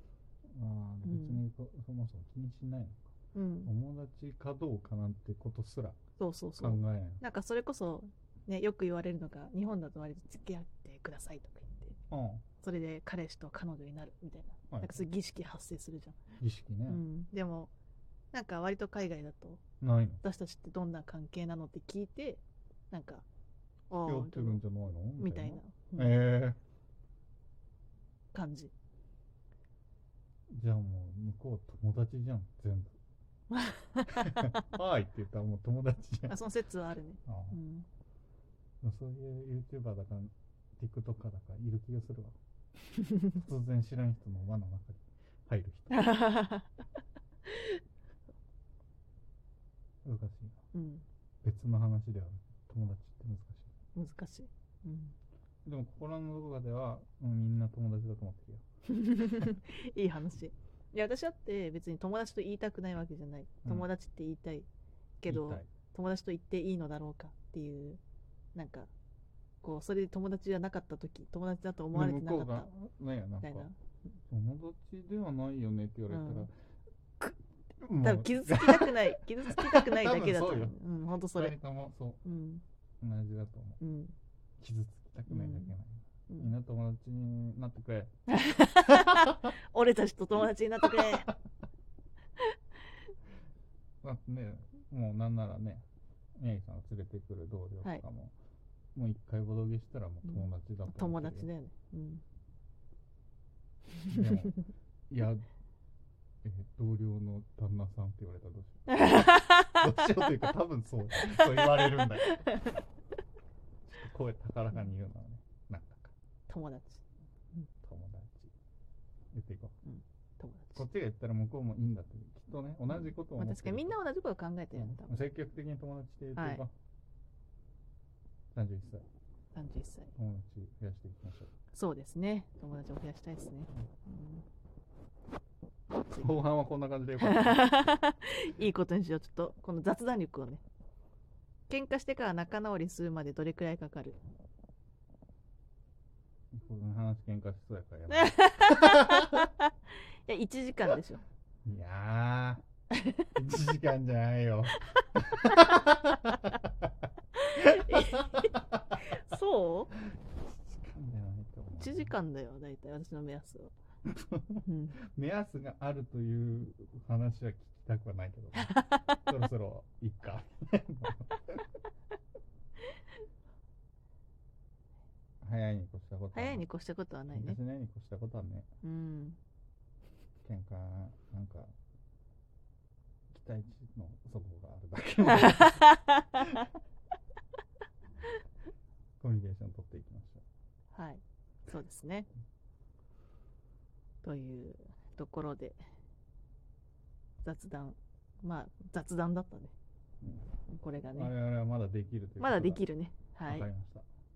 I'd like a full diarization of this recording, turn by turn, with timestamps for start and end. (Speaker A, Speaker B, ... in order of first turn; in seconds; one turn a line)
Speaker A: 0.5-3.1
Speaker B: 1.0-1.4
Speaker B: 3.3-3.7
Speaker A: 3.6-6.0
Speaker B: 6.2-12.0
Speaker A: 6.6-7.2
Speaker A: 12.1-12.4
Speaker B: 12.6-16.2
Speaker A: 14.7-15.1
Speaker A: 16.4-17.0
Speaker B: 16.9-17.7
Speaker B: 18.3-19.6
Speaker A: 19.8-20.2
Speaker B: 20.2-23.2
Speaker B: 23.9-24.6
Speaker A: 24.0-26.6
Speaker B: 25.2-26.2
Speaker B: 28.3-28.7
Speaker A: 30.5-33.0
Speaker B: 33.5-34.5
Speaker A: 34.1-36.4
Speaker B: 36.3-37.9
Speaker A: 37.3-37.6
Speaker A: 38.8-42.4
Speaker A: 43.3-46.1
Speaker B: 45.9-46.7
Speaker B: 47.5-47.8
Speaker A: 50.0-50.6
Speaker B: 50.7-51.0
Speaker A: 51.4-53.7
Speaker B: 54.0-55.1
Speaker A: 55.6-58.6
Speaker B: 58.9-64.7
Speaker B: 65.2-68.0
Speaker A: 65.3-65.7
Speaker B: 68.5-68.9
Speaker B: 69.6-72.7
Speaker A: 71.9-73.7
Speaker B: 73.4-73.8
Speaker A: 74.3-76.5
Speaker B: 76.1-76.5
Speaker A: 77.2-82.2
Speaker B: 78.0-81.5
Speaker B: 82.2-82.6
Speaker A: 83.0-83.8
Speaker B: 83.8-84.1
Speaker A: 84.6-88.2
Speaker B: 85.3-85.8
Speaker B: 88.3-91.3
Speaker A: 88.9-89.5
Speaker A: 90.8-91.3
Speaker A: 94.0-95.8
Speaker A: 96.4-98.3
Speaker A: 99.0-101.5
Speaker B: 100.2-102.2
Speaker A: 104.1-105.5
Speaker A: 106.4-112.5
Speaker B: 108.9-109.9
Speaker B: 111.2-112.8
Speaker A: 113.9-116.1
Speaker B: 116.5-117.0
Speaker A: 117.8-118.5
Speaker A: 119.3-119.8
Speaker B: 119.8-120.8
Speaker A: 120.8-124.0
Speaker B: 123.0-125.1
Speaker A: 124.8-126.7
Speaker B: 126.4-126.6
Speaker A: 128.5-129.1
Speaker B: 129.5-130.1
Speaker A: 130.2-131.5
Speaker B: 131.7-134.4
Speaker B: 136.1-136.3
Speaker A: 136.1-137.6
Speaker B: 137.2-140.6
Speaker B: 141.7-144.2
Speaker A: 146.5-149.5
Speaker B: 148.1-149.7
Speaker B: 150.3-151.2
Speaker A: 151.7-152.6
Speaker A: 153.3-156.9
Speaker B: 157.4-159.9
Speaker A: 157.6-158.8
Speaker A: 160.1-162.1
Speaker B: 161.8-163.7
Speaker A: 164.1-171.6
Speaker B: 164.7-165.0
Speaker B: 168.6-169.1
Speaker A: 175.4-176.6
Speaker B: 176.3-177.6
Speaker A: 177.3-178.7
Speaker B: 178.8-179.4
Speaker A: 180.4-181.7
Speaker A: 183.3-185.9
Speaker B: 185.3-186.5
Speaker A: 189.2-190.4
Speaker B: 190.9-192.3
Speaker B: 194.2-195.8
Speaker B: 197.4-199.7
Speaker A: 200.2-200.5
Speaker B: 200.7-201.3
Speaker A: 201.1-202.9
Speaker B: 202.4-203.7
Speaker A: 203.5-204.1